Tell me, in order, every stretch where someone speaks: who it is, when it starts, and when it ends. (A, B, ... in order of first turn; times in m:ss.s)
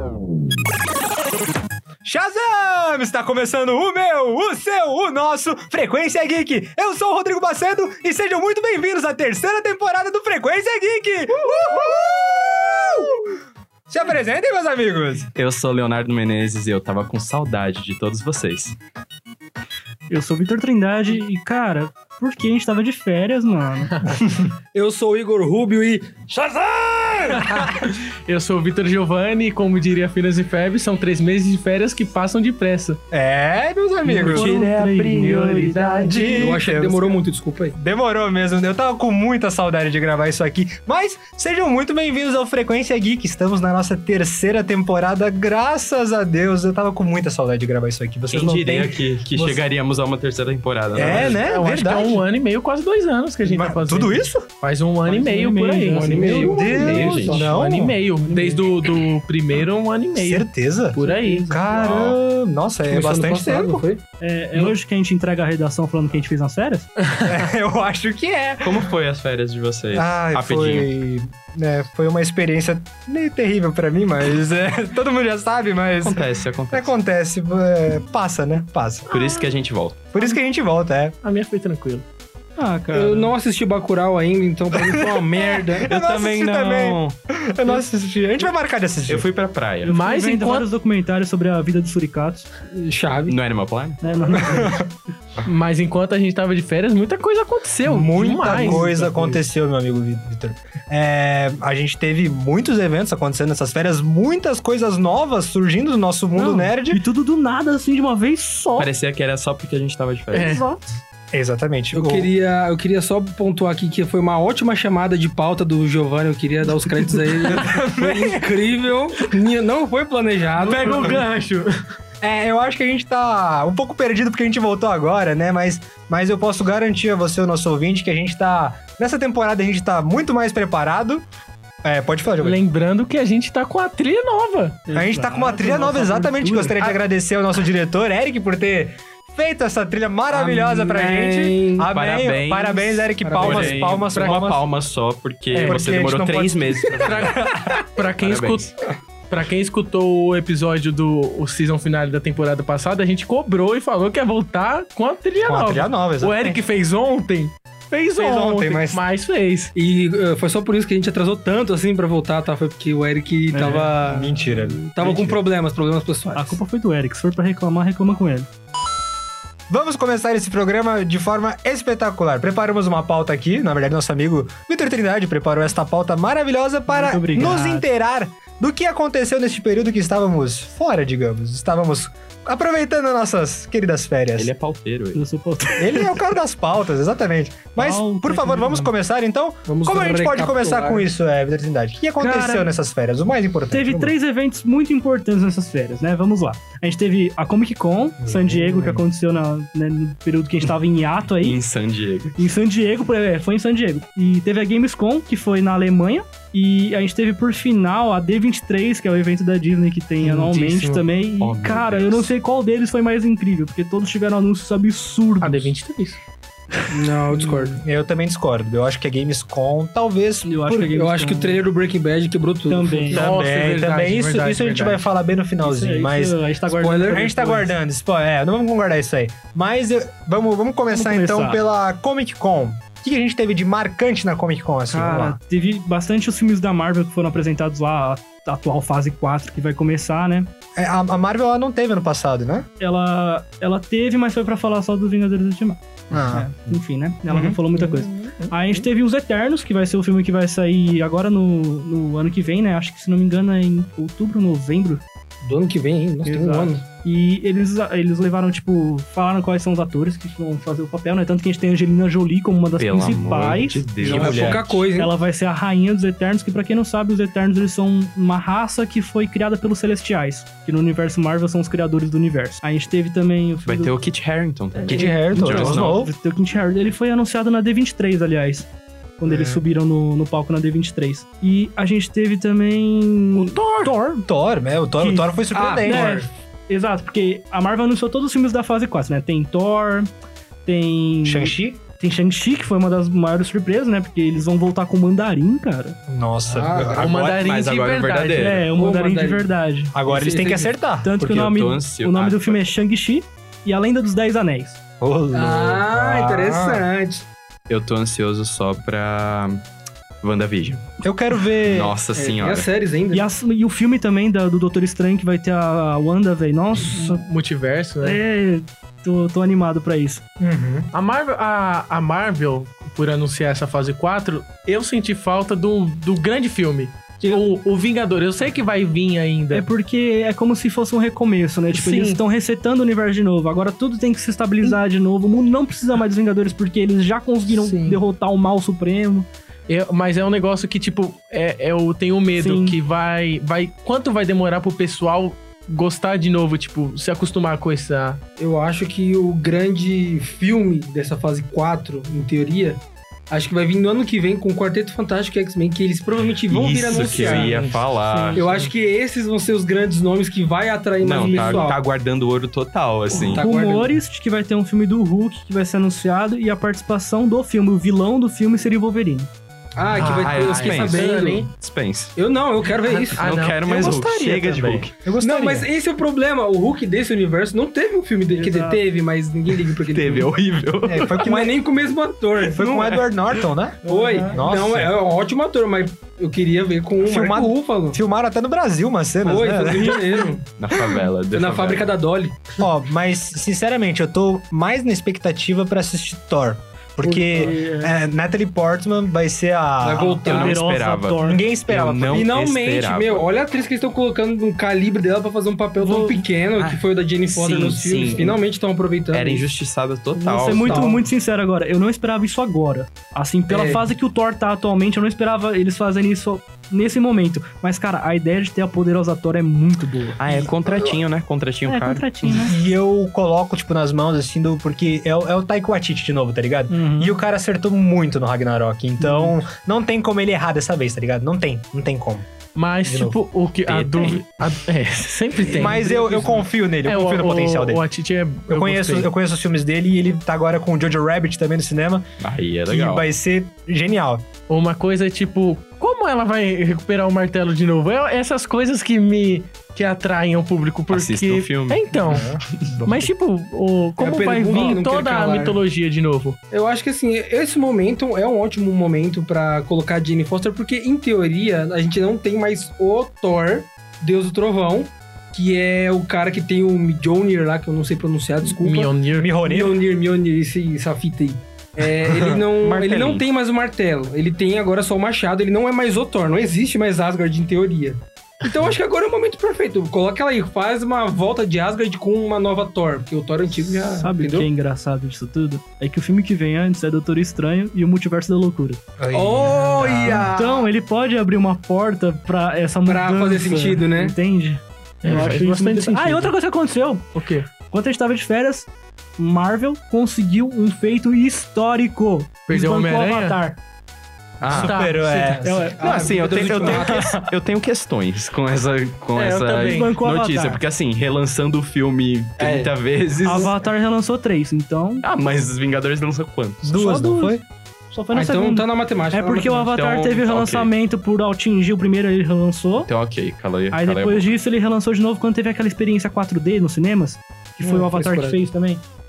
0:02.0-0:13.4 A
0:13.9-0:15.3 A
0:15.3-0:18.7 B
0:20.1-0:23.9 C
0:23.9-0:24.2 D
0:24.7-0:27.4 E
0:27.4-0:27.8 A
0:27.4-0:33.0 D
0:33.1-0:34.7 A
0:34.0-0:36.2 C
0:34.1-0:36.5 D
0:36.0-0:37.2 A
0:36.2-0:37.7 E
0:37.7-0:49.6 A
0:48.3-0:51.4 B
0:50.9-0:52.2 A
0:51.0-1:01.5 D
0:53.4-0:54.5 A
0:55.0-0:56.5 C
0:55.9-0:57.5 E
0:56.5-0:58.0 A
0:56.6-0:57.4 B
0:58.2-0:58.6 C
1:00.2-1:03.8 A
1:01.0-1:01.6 C
1:01.7-1:02.2 B
1:02.9-1:04.0 E
1:04.2-1:06.9 C
1:07.0-1:07.3 D
1:07.2-1:08.9 A
1:08.6-1:10.9 B
1:09.9-1:19.1 A
1:16.0-1:16.9 B
1:19.1-1:19.4 D
1:19.1-1:20.1 B
1:20.1-1:21.2 A
1:21.2-1:22.0 D
1:22.6-1:23.3 C
1:22.9-1:26.7 E
1:24.7-1:29.2 A
1:26.0-1:27.1 C
1:29.1-1:29.9 B
1:29.8-1:32.5 C
1:29.9-1:30.7 D
1:32.7-1:33.3 E
1:33.3-1:34.0 B
1:34.0-1:34.8 C
1:34.3-1:34.9 A
1:35.4-1:39.4 D
1:37.8-1:47.0 A
1:38.4-1:39.3 C
1:46.3-1:48.9 C
1:48.8-1:50.6 B
1:50.3-1:50.6 D
1:50.3-1:50.9 C
1:51.3-1:52.3 A
1:51.9-2:01.2 E
1:57.4-1:58.5 A
2:00.6-2:01.7 D
2:02.2-2:11.2 A
2:11.8-2:12.6 A
2:12.4-2:14.8 D
2:14.9-2:16.8 C
2:14.9-2:24.6 A
2:20.3-2:21.9 E
2:21.9-2:27.4 B
2:23.2-2:23.8 E
2:23.4-2:24.4 D
2:25.5-2:26.0 D
2:25.6-2:27.8 A
2:26.9-2:28.7 D
2:28.2-2:28.7 B
2:29.3-2:39.7 D
2:35.4-2:36.6 A
2:38.1-2:39.0 A
2:39.7-2:44.4 E
2:43.5-2:44.8 C
2:43.6-2:45.4 A
2:44.9-2:46.6 E
2:46.3-2:48.5 C
2:49.7-3:04.5 A
2:56.9-2:57.9 C
3:04.4-3:05.2 B
3:05.1-3:06.2 C
3:05.8-3:14.1 A
3:07.8-3:08.9 C
3:09.6-3:11.0 E
3:12.2-3:12.7 C
3:13.7-3:21.6 C
3:18.2-3:19.0 A
3:21.4-3:22.4 B
3:22.4-3:35.7 C
3:30.2-3:31.0 D
3:31.4-3:32.3 B
3:35.4-3:36.2 D
3:36.9-3:37.8 E
3:37.4-3:40.5 A
3:40.4-3:41.6 C
3:40.7-3:43.2 E
3:42.7-3:43.3 C
3:43.1-3:45.0 D
3:43.1-3:46.4 A
3:45.6-3:47.7 C
3:46.7-3:47.4 E
3:47.1-3:55.4 A
3:50.9-3:51.6 C
3:54.9-4:00.5 C
4:00.8-4:02.7 A
4:02.8-4:15.0 C
4:06.1-4:06.8 A
4:07.3-4:07.6 A
4:07.8-4:08.5 E
4:15.4-4:16.8 E
4:16.2-4:33.9 C
4:22.8-4:24.8 B
4:24.0-4:25.2 E
4:33.6-4:36.0 B
4:34.8-4:38.7 C
4:34.8-4:36.1 A
4:39.2-4:44.2 C
4:39.2-4:39.6 A
4:43.3-4:43.9 D
4:44.2-4:46.2 A
4:45.0-4:45.3 C
4:45.5-4:46.3 E
4:45.8-4:50.1 C
4:50.6-4:56.0 C
4:51.2-4:51.8 A
4:56.1-4:57.5 A
4:56.5-4:57.2 E
4:57.0-4:58.6 D
4:57.4-4:58.7 B
4:58.3-4:59.9 C
4:58.7-4:59.5 E
4:59.9-5:01.2 A
5:00.0-5:00.7 E
5:01.0-5:04.8 C
5:01.2-5:02.7 B
5:05.0-5:06.9 A
5:05.3-5:07.2 E
5:07.7-5:09.6 B
5:10.2-5:10.9 B
5:11.0-5:12.0 A
5:11.6-5:12.7 B
5:12.1-5:13.2 E
5:13.1-5:17.2 C
5:16.9-5:18.2 D
5:18.0-5:20.2 C
5:20.4-5:20.9 A
5:20.9-5:29.6 D
5:29.5-5:39.3 C
5:31.7-5:32.2 D
5:37.5-5:38.0 D
5:39.7-5:48.2 D
5:42.4-5:42.8 C
5:48.4-5:57.5 E
5:56.5-5:58.4 B
5:57.0-5:58.6 D
5:58.3-5:58.6 C
5:58.4-6:01.8 E
6:01.0-6:03.4 B
6:01.1-6:01.7 C
6:03.1-6:03.9 E
6:03.1-6:09.3 C
6:09.8-6:11.5 E
6:09.9-6:11.5 D
6:10.0-6:12.1 B
6:12.2-6:13.2 E
6:12.8-6:13.9 D
6:13.2-6:14.9 B
6:13.6-6:15.7 A
6:15.2-6:20.3 E
6:18.3-6:18.8 C
6:19.8-6:21.2 B
6:20.8-6:21.6 A
6:21.2-6:23.1 E
6:22.4-6:24.9 A
6:23.8-6:28.0 E
6:23.9-6:24.3 C
6:27.0-6:31.0 A
6:29.2-6:30.5 E
6:30.6-6:31.9 B
6:31.3-6:32.4 E
6:32.6-6:40.3 A
6:37.0-6:37.9 C
6:39.8-6:40.6 E
6:40.2-6:41.4 C
6:40.2-6:43.3 B
6:41.2-6:42.3 A
6:42.1-6:49.5 E
6:45.8-6:46.2 C
6:47.3-6:48.4 B
6:49.1-6:50.8 B
6:50.1-7:00.2 C
6:50.5-6:51.0 E
6:53.5-6:53.8 E
7:00.2-7:02.0 B
7:00.3-7:01.0 E
7:01.6-7:02.6 C
7:02.2-7:12.3 A
7:06.7-7:07.2 C
7:09.0-7:09.3 C
7:12.5-7:19.1 D
7:12.8-7:13.2 A
7:13.6-7:14.2 B
7:15.5-7:17.8 A
7:18.5-7:22.1 A
7:22.2-7:23.1 B
7:22.7-7:24.2 A
7:24.5-7:32.3 D
7:30.9-7:32.8 B
7:32.0-7:32.4 A
7:32.8-7:36.4 D
7:34.0-7:35.6 E
7:36.5-8:04.5 E
7:48.4-7:49.3 D
7:49.1-7:49.8 A
7:51.8-7:52.4 A
7:52.5-7:53.2 B
8:04.0-8:08.8 C
8:09.0-8:10.3 A
8:09.1-8:10.7 E
8:10.0-8:23.6 C
8:12.8-8:14.2 E
8:15.0-8:16.3 D
8:17.1-8:17.5 D
8:22.5-8:23.4 D
8:24.4-8:24.8 B
8:24.5-8:27.3 A
8:24.5-8:25.5 D
8:25.4-8:25.8 C
8:25.8-8:27.1 E
8:25.8-8:33.6 B
8:29.1-8:30.0 D
8:29.5-8:30.6 C
8:32.4-8:32.7 E
8:33.2-8:35.0 C
8:33.2-8:33.5 E
8:35.0-8:36.6 B
8:36.6-8:37.4 A
8:36.7-8:37.4 C
8:37.9-8:42.9 C
8:38.1-8:39.7 E
8:39.7-8:40.7 B
8:42.8-8:44.3 B
8:43.7-8:48.8 C
8:47.6-8:48.4 E